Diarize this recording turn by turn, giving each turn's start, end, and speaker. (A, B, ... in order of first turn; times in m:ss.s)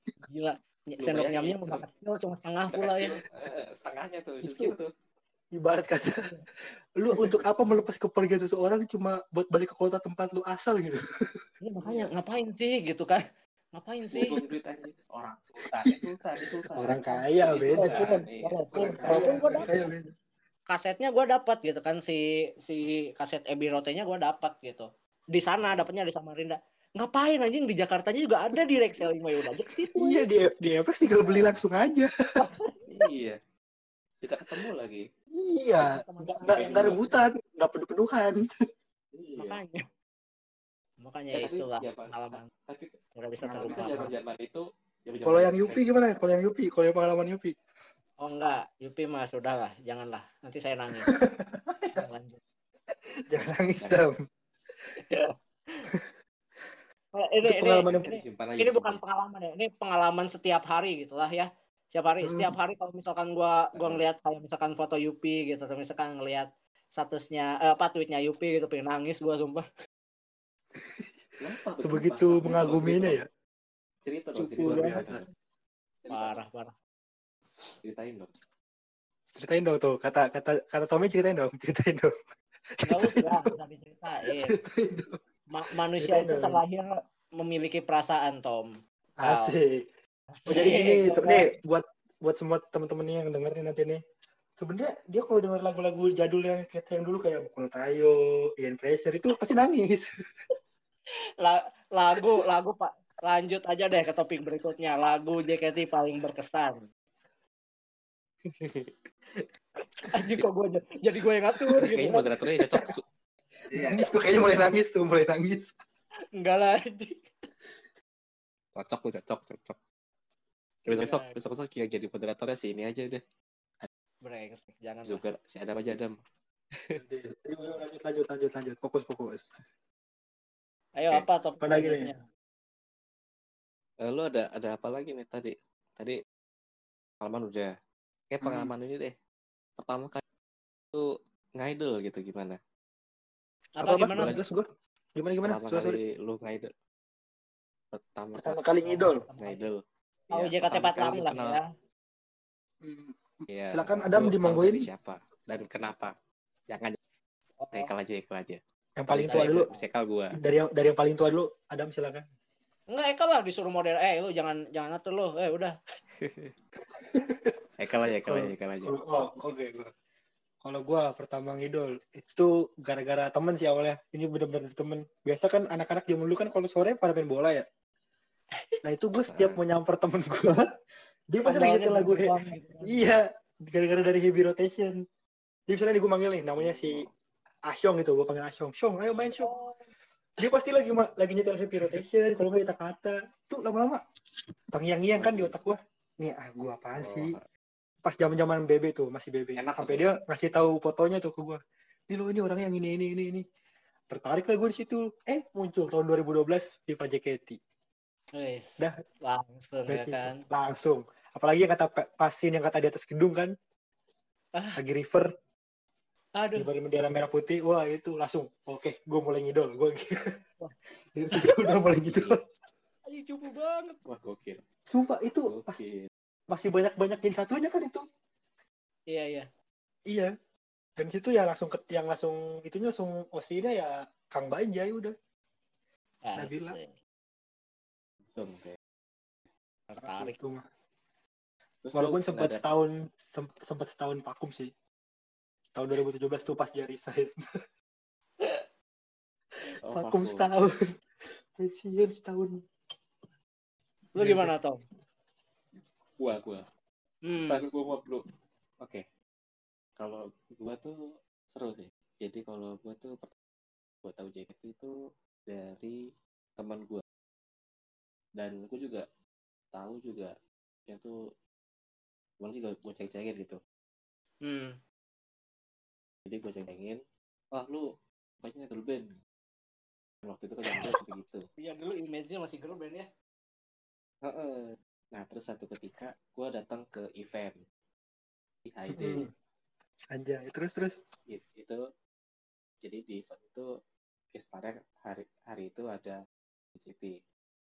0:00.3-0:03.2 A
0:01.0-0:01.8 B
0:02.7-0:04.9 B
0:04.4-0:04.7 A
0:05.5-0:06.3 C
0:07.0-0:11.4 C
0:11.6-0:13.2 A
0:11.8-0:12.2 B
0:13.7-0:14.4 A
0:14.1-0:19.9 B
0:15.7-0:16.0 C
0:16.7-0:18.1 C
0:17.6-0:19.7 A
0:18.8-0:20.0 C
0:20.7-0:30.2 A
0:30.0-0:32.1 C
0:31.3-0:31.6 B
0:32.4-0:32.9 A
0:32.9-0:33.4 B
0:34.2-0:35.0 B
0:35.3-0:38.5 C
0:35.8-0:37.2 A
0:36.5-0:37.1 B
0:39.1-0:39.6 B
0:39.4-0:39.8 A
0:41.0-0:42.5 A
0:41.3-0:42.9 B
0:43.2-0:44.1 A
0:43.4-0:44.1 C
0:43.5-0:45.9 B
0:45.3-0:47.6 C
0:48.2-0:51.1 A
0:51.1-0:52.0 C
0:52.0-0:52.4 A
0:53.3-0:54.2 C
0:55.1-0:55.9 A
0:55.9-0:56.7 C
0:57.1-1:09.6 A
0:57.4-0:58.1 C
0:57.9-0:59.0 B
1:02.2-1:02.5 C
1:03.8-1:04.0 B
1:10.8-1:13.3 C
1:11.4-1:13.2 B
1:14.0-1:15.2 B
1:14.4-1:15.1 A
1:14.6-1:15.2 C
1:16.0-1:16.4 B
1:16.1-1:16.7 A
1:17.8-1:18.3 B
1:19.4-1:22.1 C
1:22.8-1:23.4 C
1:22.9-1:24.6 A
1:24.3-1:25.2 C
1:25.5-1:28.7 A
1:26.0-1:26.6 C
1:29.2-1:29.8 C
1:29.2-1:29.6 A
1:30.4-1:31.5 A
1:30.5-1:34.0 C
1:34.6-1:40.1 C
1:41.4-1:46.8 A
1:48.5-1:49.4 B
1:50.0-1:52.3 A
1:51.6-1:51.9 C
1:51.8-1:53.0 B
1:52.5-1:52.9 C
1:53.7-1:54.4 B
1:53.7-1:55.7 C
1:56.4-1:57.2 A
1:58.8-1:59.8 B
2:00.8-2:01.4 A
2:00.9-2:03.2 B
2:04.2-2:05.2 A
2:05.1-2:06.2 B
2:06.7-2:07.0 B
2:07.0-2:09.5 C
2:11.0-2:12.2 A
2:11.6-2:12.1 C
2:14.0-2:16.2 B
2:17.2-2:17.7 B
2:18.3-2:19.2 B
2:18.4-2:18.7 C
2:19.8-2:20.2 B
2:20.9-2:22.6 B
2:23.8-2:24.4 A
2:23.8-2:26.0 C
2:24.2-2:24.4 B
2:25.4-2:26.7 B
2:27.9-2:28.6 B
2:28.4-2:29.3 C
2:28.8-2:29.7 A
2:29.4-2:31.6 B
2:30.3-2:31.6 A
2:32.8-2:34.9 C
2:33.5-2:36.1 B
2:36.7-2:37.0 B
2:37.6-2:37.9 A
2:37.7-2:40.4 B
2:39.0-2:39.7 C
2:39.2-2:39.9 A
2:40.3-2:42.2 C
2:42.9-2:45.8 A
2:46.2-2:46.5 B
2:47.0-2:49.9 C
2:47.8-2:49.0 B
2:50.6-2:57.6 C
2:58.8-3:00.7 C
2:59.3-2:59.6 B
3:01.3-3:02.3 C
3:01.4-3:03.1 A
3:02.9-3:05.0 C
3:05.7-3:07.0 C
3:06.6-3:07.1 B
3:07.7-3:09.5 C
3:09.2-3:09.9 A
3:10.4-3:14.0 C
3:14.7-3:17.4 C
3:15.2-3:15.5 B
3:17.0-3:17.4 B
3:18.0-3:23.4 C
3:19.6-3:20.1 B
3:24.1-3:27.6 C
3:28.4-3:30.4 A
3:29.9-3:33.5 C
3:34.8-3:35.3 C
3:36.4-3:36.7 A
3:36.6-3:40.2 C
3:41.1-3:42.4 C
3:42.0-3:42.4 B
3:43.1-3:44.0 A
3:44.0-3:44.6 B
3:44.9-3:45.8 C
3:45.5-3:46.1 B
3:46.5-3:48.0 C
3:49.1-3:49.5 A
3:51.0-3:55.1 C
3:56.3-3:57.0 A
3:56.4-3:56.8 C
3:58.3-3:58.8 B
3:59.9-4:00.4 A
4:00.0-4:00.6 C
4:01.8-4:02.6 B
4:01.9-4:04.7 C
4:05.7-4:07.4 C
4:09.9-4:10.5 B
4:09.9-4:10.8 C
4:11.6-4:12.6 C
4:14.2-4:14.8 A
4:14.2-4:14.5 C
4:16.2-4:16.6 B
4:17.2-4:17.6 A
4:17.5-4:18.2 B
4:20.0-4:20.9 B
4:21.5-4:23.3 B
4:24.0-4:24.9 B
4:25.5-4:26.0 B
4:26.6-4:27.0 B
4:28.4-4:29.1 B
4:29.7-4:30.3 B
4:30.9-4:31.1 B
4:32.4-4:33.6 B
4:34.4-4:34.8 A
4:36.3-4:37.0 B
4:37.5-4:37.9 B
4:38.4-4:39.2 B
4:40.2-4:41.4 B
4:41.6-4:43.1 A
4:44.2-4:47.6 B
4:48.6-4:49.3 B
4:48.9-4:49.3 C
4:50.1-4:51.0 C
4:51.3-4:51.8 B
4:52.8-4:53.7 B
4:54.3-4:56.2 B
4:56.8-4:57.2 B